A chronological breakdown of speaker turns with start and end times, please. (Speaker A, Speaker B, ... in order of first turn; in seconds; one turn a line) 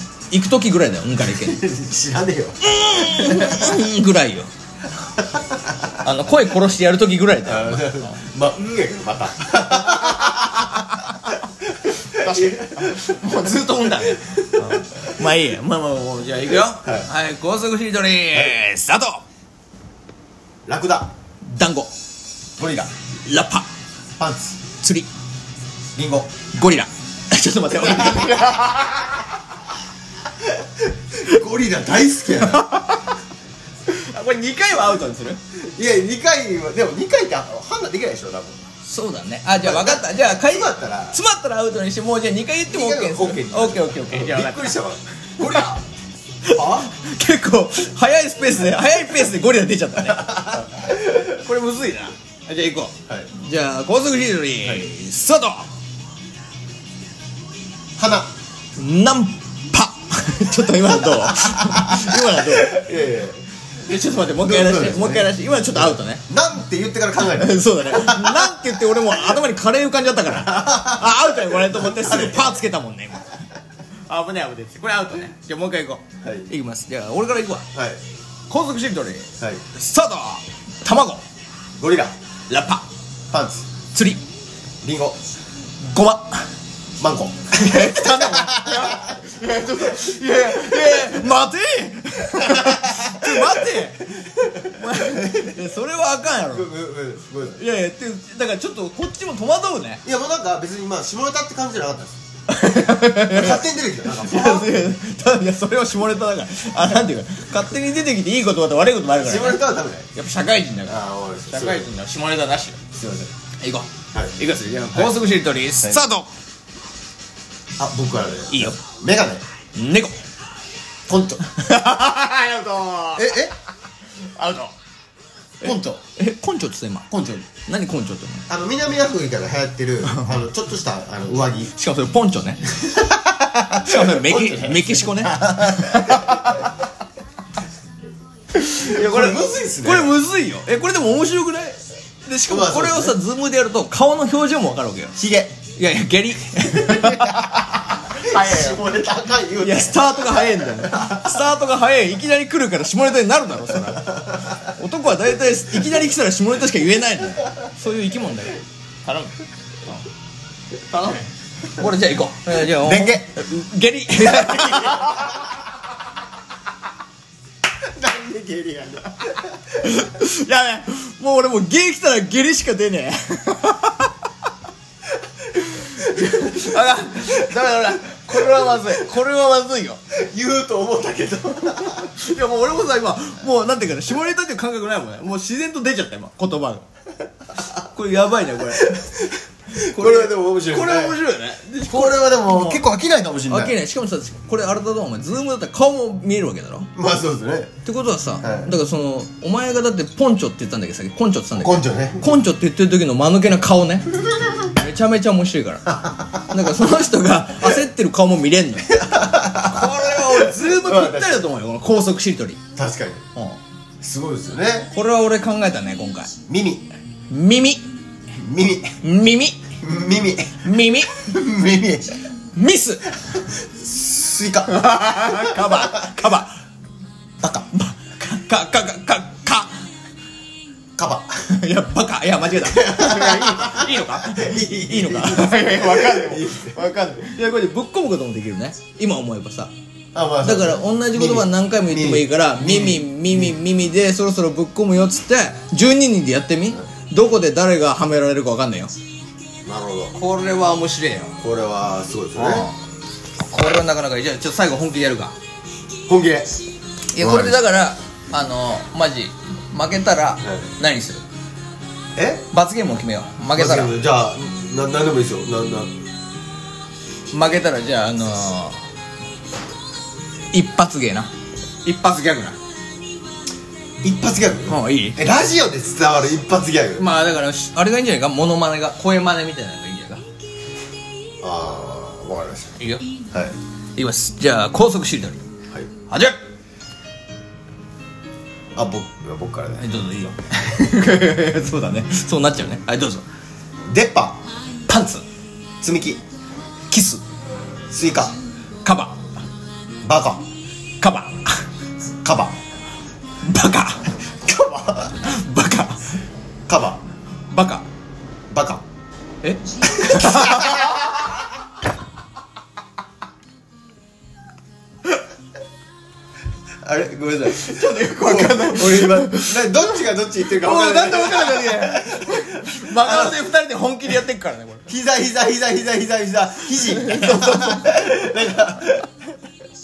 Speaker A: 0.3-1.6
Speaker B: 1.3-2.6
Speaker A: 2.6-4.5
Speaker B: 3.1-3.8
Speaker B: 4.9-6.0
Speaker A: 6.0-8.2
Speaker B: 7.4-13.0
Speaker A: 9.7-11.3
Speaker A: 12.1-19.2
Speaker B: 14.6-15.0
Speaker B: 16.7-17.1
Speaker B: 18.3-18.6
Speaker B: 20.6-21.1
Speaker A: 21.5-21.9
Speaker B: 22.6-22.9
Speaker A: 23.2-23.6
Speaker B: 24.2-24.6
Speaker A: 24.8-25.1
Speaker B: 25.9-26.3
Speaker A: 26.5-29.1
Speaker B: 28.0-28.3
Speaker B: 30.4-32.7
Speaker A: 32.6-33.0
Speaker A: 33.9-35.4
Speaker B: 35.5-38.6
Speaker A: 38.8-44.8
Speaker B: 39.6-41.2
Speaker B: 42.7-45.8
Speaker A: 45.4-45.7
Speaker B: 46.5-46.9
Speaker A: 46.5-55.7
Speaker B: 50.0-51.4
Speaker B: 58.0-58.3
Speaker A: 58.8-62.8
Speaker B: 60.8-63.4
Speaker A: 63.8-66.2
Speaker B: 64.3-69.3
Speaker A: 67.3-73.3
Speaker B: 70.4-72.6
Speaker A: 74.1-77.7
Speaker B: 77.7-78.0
Speaker A: 78.5-81.2
Speaker B: 81.8-82.1
Speaker A: 82.5-82.8
Speaker B: 83.3-83.7
Speaker A: 83.9-84.2
Speaker B: 84.8-85.2
Speaker A: 85.8-86.5
Speaker B: 87.0-89.0
Speaker A: 87.5-96.7
Speaker B: 90.7-91.0
Speaker B: 92.3-95.6
Speaker B: 96.4-97.6
Speaker A: 97.4-100.0
Speaker B: 100.0-102.2
Speaker A: 102.5-109.6
Speaker B: 103.2-104.8
Speaker B: 109.1-110.1
Speaker A: 110.1-112.8
Speaker B: 110.8-111.9
Speaker B: 112.9-113.3
Speaker A: 113.6-116.3
Speaker B: 114.9-115.2
Speaker B: 117.8-119.4
Speaker A: 118.5-118.8
Speaker A: 119.8-120.2
Speaker B: 121.1-121.4
Speaker A: 121.5-123.3
Speaker B: 123.1-123.5
Speaker A: 124.3-124.7
Speaker B: 125.6-126.0
Speaker A: 125.6-128.4
Speaker B: 127.1-127.5
Speaker B: 128.5-131.7
Speaker A: 130.1-130.3
Speaker A: 131.7-132.8
Speaker B: 132.8-136.5
Speaker A: 133.8-136.7
Speaker A: 138.5-145.1
Speaker B: 138.8-140.2
Speaker B: 142.5-143.2
Speaker B: 145.2-145.6
Speaker A: 145.8-148.8
Speaker B: 148.0-151.3
Speaker A: 149.6-160.0
Speaker A: 160.9-165.5
Speaker B: 162.7-163.3
Speaker B: 164.4-165.2
Speaker B: 167.8-169.4
Speaker A: 169.7-174.1
Speaker A: 175.5-180.0
Speaker B: 176.2-176.6
Speaker B: 178.3-178.7
Speaker B: 180.1-182.1
Speaker A: 181.7-186.8
Speaker A: 187.8-189.1
Speaker B: 188.7-191.2
Speaker A: 189.7-192.8
Speaker B: 191.8-193.8
Speaker A: 193.5-196.9
Speaker B: 196.9-197.7
Speaker A: 197.8-204.1
Speaker B: 198.4-198.7
Speaker B: 201.5-202.2
Speaker A: 204.7-205.9
Speaker B: 205.9-206.6
Speaker A: 206.5-208.9
Speaker B: 208.9-211.4
Speaker A: 209.6-212.6
Speaker B: 212.8-213.2
Speaker B: 214.0-214.9
Speaker A: 214.9-216.3
Speaker B: 216.5-216.8
Speaker A: 217.3-217.8
Speaker B: 218.3-219.0
Speaker A: 219.0-219.6
Speaker B: 219.8-222.2
Speaker A: 220.6-221.2
Speaker A: 222.5-223.0
Speaker B: 223.2-226.1
Speaker A: 224.7-226.6
Speaker B: 227.4-227.7
Speaker A: 227.7-229.8
Speaker B: 230.9-231.4
Speaker A: 231.4-239.7
Speaker B: 232.6-236.8
Speaker B: 240.1-243.5
Speaker A: 240.4-248.9
Speaker B: 249.6-250.2
Speaker A: 250.2-251.4
Speaker B: 251.4-252.7
Speaker A: 252.3-252.8
Speaker A: 253.4-255.3
Speaker B: 256.1-256.6
Speaker A: 257.1-261.2
Speaker B: 257.2-257.6
Speaker B: 262.1-262.4
Speaker A: 262.5-263.9
Speaker B: 263.5-265.9
Speaker A: 267.3-268.8
Speaker A: 270.5-271.3
Speaker A: 271.8-272.6
Speaker B: 274.0-277.1
Speaker A: 274.7-275.2
Speaker A: 277.0-280.2
Speaker B: 281.4-282.8
Speaker A: 282.8-283.0
Speaker A: 283.9-285.5
Speaker A: 286.1-286.4
Speaker B: 288.8-289.8
Speaker A: 289.8-293.2
Speaker B: 293.9-294.4
Speaker A: 294.9-295.2
Speaker B: 295.8-296.2
Speaker A: 296.9-297.2
Speaker B: 297.9-298.3
Speaker A: 298.8-299.2
Speaker B: 300.0-300.4
Speaker A: 301.0-301.6
Speaker B: 302.2-302.6
Speaker A: 303.4-304.1
Speaker B: 304.4-305.1
Speaker A: 305.1-306.1
Speaker B: 306.7-307.0
Speaker A: 307.5-307.8
Speaker B: 308.5-308.8
Speaker A: 309.4-311.0
Speaker B: 310.0-310.6
Speaker B: 316.8-323.4
Speaker A: 317.5-324.9
Speaker B: 324.9-329.1
Speaker A: 326.6-327.9